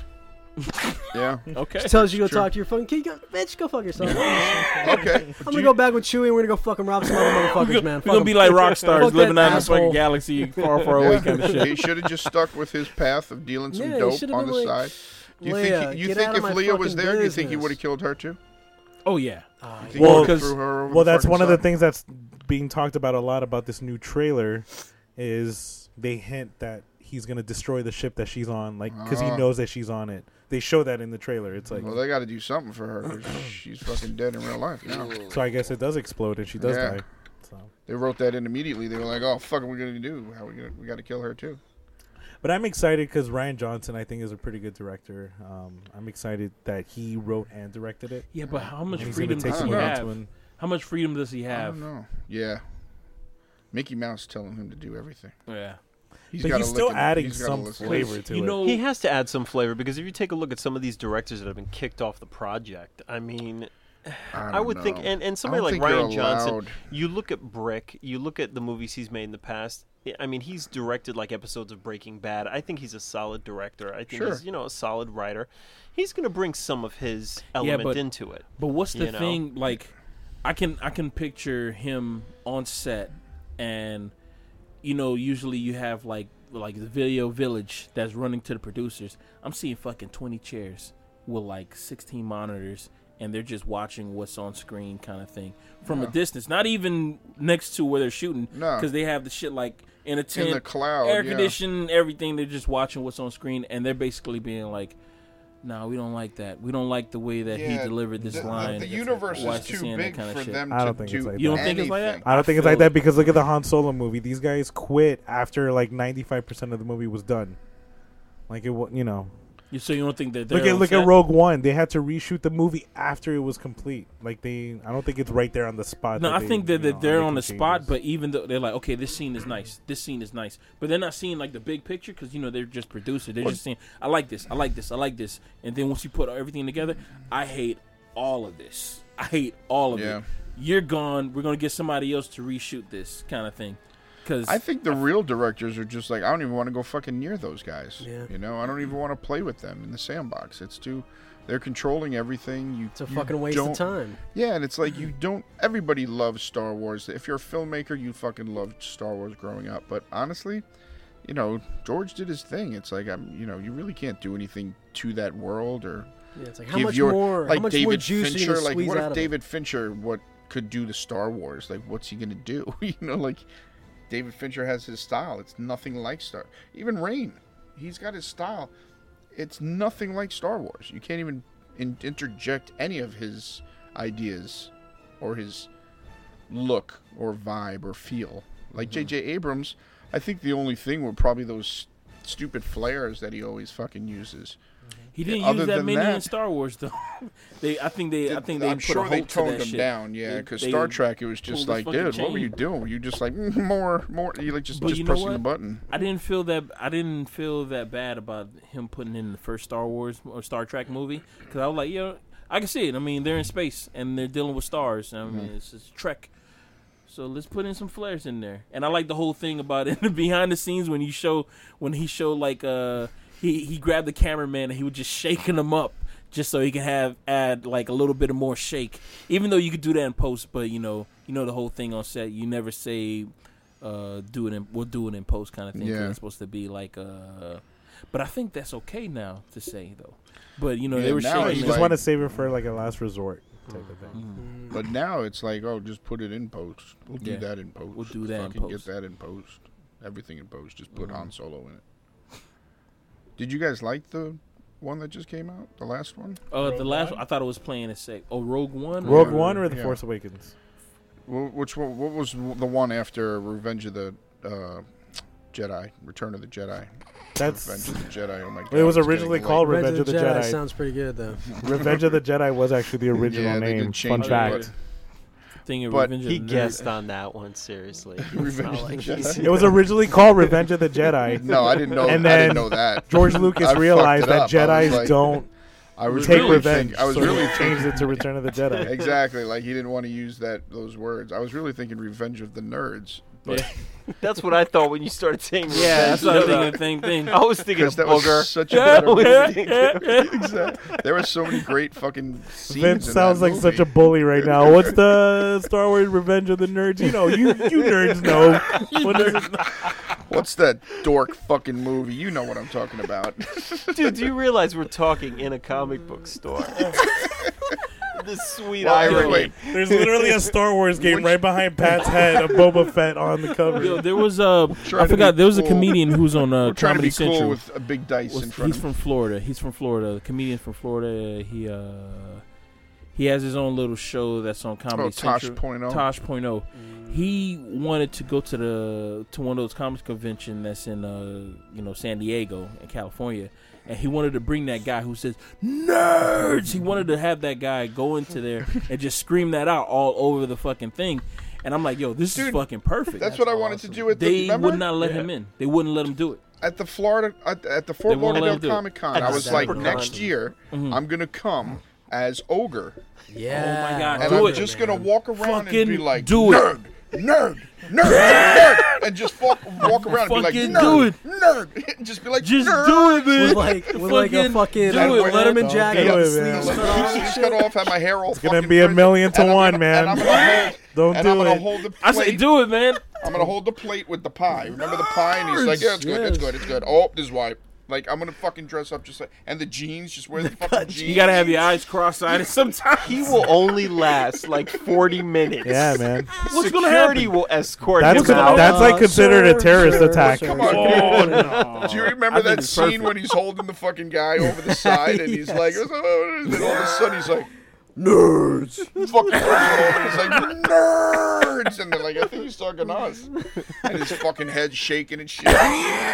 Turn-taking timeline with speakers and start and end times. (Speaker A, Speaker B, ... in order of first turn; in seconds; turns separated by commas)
Speaker A: 0.6-1.9, Speaker B: 1.1-2.5, Speaker C: 1.8-10.0, Speaker B: 4.0-5.7, Speaker A: 7.2-12.0, Speaker B: 10.9-18.4, Speaker C: 13.7-17.8, Speaker A: 19.0-20.6, Speaker C: 19.6-20.2, Speaker B: 19.8-21.6, Speaker D: 19.9-32.0, Speaker B: 28.9-29.5, Speaker B: 31.7-35.3, Speaker D: 35.2-37.7, Speaker B: 36.6-37.0, Speaker B: 37.9-41.6, Speaker D: 42.4-48.3, Speaker A: 48.3-51.8, Speaker B: 48.5-50.0, Speaker D: 48.9-50.3, Speaker B: 51.5-52.6, Speaker B: 53.7-55.4, Speaker A: 55.5-55.8, Speaker B: 56.3-58.1, Speaker D: 56.3-58.6, Speaker A: 57.8-58.8, Speaker E: 58.6-79.4, Speaker B: 64.3-66.8, Speaker B: 74.1-74.4, Speaker A: 77.6-78.0, Speaker A: 78.6-79.9, Speaker A: 80.4-84.1, Speaker A: 84.8-105.0, Speaker B: 95.8-96.1, Speaker B: 98.5-98.9, Speaker B: 100.3-101.6, Speaker A: 105.6-110.6, Speaker B: 107.5-112.2, Speaker D: 108.2-108.8, Speaker C: 109.0-109.5, Speaker D: 110.7-117.6, Speaker A: 111.3-113.0, Speaker D: 118.5-119.3, Speaker A: 119.7-121.1, Speaker D: 120.5-127.9, Speaker A: 126.2-145.1, Speaker B: 139.9-140.2, Speaker B: 144.5-160.6, Speaker C: 148.0-148.3, Speaker C: 152.9-154.2, Speaker B: 161.2-166.1, Speaker C: 166.3-169.3, Speaker B: 166.7-173.4, Speaker B: 174.1-178.7, Speaker B: 179.3-185.7, Speaker B: 186.5-194.6, Speaker A: 188.8-189.1, Speaker A: 195.1-202.5, Speaker B: 195.2-196.3, Speaker B: 198.2-205.8, Speaker A: 204.7-216.3, Speaker B: 215.2-215.5, Speaker A: 217.1-233.3, Speaker A: 233.8-241.9, Speaker B: 235.7-236.2, Speaker B: 240.9-242.5, Speaker D: 241.3-244.2, Speaker E: 243.7-244.2, Speaker A: 244.1-244.4, Speaker C: 244.4-244.8, Speaker B: 244.7-251.8, Speaker A: 247.2-248.9, Speaker A: 250.9-251.3, Speaker B: 253.4-256.4, Speaker A: 256.5-259.7, Speaker C: 256.6-257.2, Speaker B: 259.0-260.0, Speaker D: 259.0-260.5, Speaker B: 261.3-264.9, Speaker B: 265.5-269.7, Speaker D: 267.4-268.1, Speaker D: 268.7-270.6, Speaker C: 269.6-271.5, Speaker D: 271.5-274.7, Speaker B: 271.6-272.0, Speaker B: 273.2-274.7, Speaker A: 274.1-274.7, Speaker A: 275.6-276.9, Speaker B: 275.9-276.1, Speaker E: 276.2-279.8, Speaker B: 278.2-279.8, Speaker D: 279.4-285.5, Speaker B: 281.3-285.4, Speaker E: 281.7-282.1, Speaker B: 286.0-288.2, Speaker A: 286.1-287.4, Speaker D: 286.1-288.9, Speaker E: 288.8-289.0, Speaker B: 288.8-293.7, Speaker A: 293.4-293.7, Speaker E: 294.1-300.3, Speaker A: 295.7-297.4, Speaker B: 295.9-296.7, Speaker B: 297.7-305.0, Speaker A: 298.7-300.5, Speaker E: 300.8-301.5, Speaker D: 302.7-309.6, Speaker E: 307.6-309.1, Speaker A: 308.8-309.8, Speaker B: 310.2-314.3, Speaker E: 313.9-317.5, Speaker E: 318.1-320.5, Speaker B: 318.8-319.5, Speaker A: 319.0-319.5, Speaker D: 319.1-324.1, Speaker B: 321.0-321.2, Speaker A: 323.8-327.6, Speaker B: 324.8-328.9, Speaker A: 328.3-332.4, Speaker A: 333.1-353.3, Speaker B: 334.9-336.0, Speaker C: 336.8-337.1, Speaker B: 352.3-352.6, Speaker B: 353.1-354.9, Speaker C: 353.2-354.1, Speaker A: 354.1-356.4, Speaker E: 355.0-355.3, Speaker B: 356.6-363.0, Speaker A: 358.1-359.8, Speaker E: 359.1-360.3, Speaker C: 359.1-360.3, Speaker A: 360.7-361.0, Speaker C: 363.3-365.1, Speaker A: 363.5-364.7, Speaker B: 364.2-373.4, Speaker A: 365.4-366.7, Speaker A: 368.0-369.1, Speaker A: 369.7-371.2, Speaker A: 372.4-377.4, Speaker C: 373.3-377.7, Speaker B: 374.9-382.4, Speaker D: 375.3-377.0, Speaker D: 378.3-381.7, Speaker A: 380.2-380.7, Speaker A: 382.0-383.1, Speaker B: 383.2-391.7, Speaker C: 385.3-386.7, Speaker C: 390.4-391.4, Speaker A: 391.0-393.9, Speaker E: 393.0-399.0, Speaker D: 395.6-396.3, Speaker A: 396.4-397.4, Speaker D: 397.9-400.9, Speaker A: 398.0-399.0, Speaker C: 398.5-401.7, Speaker B: 399.9-407.5, Speaker A: 400.6-403.3, Speaker C: 404.4-405.8, Speaker C: 406.5-407.0, Speaker C: 407.9-410.3, Speaker B: 408.9-416.0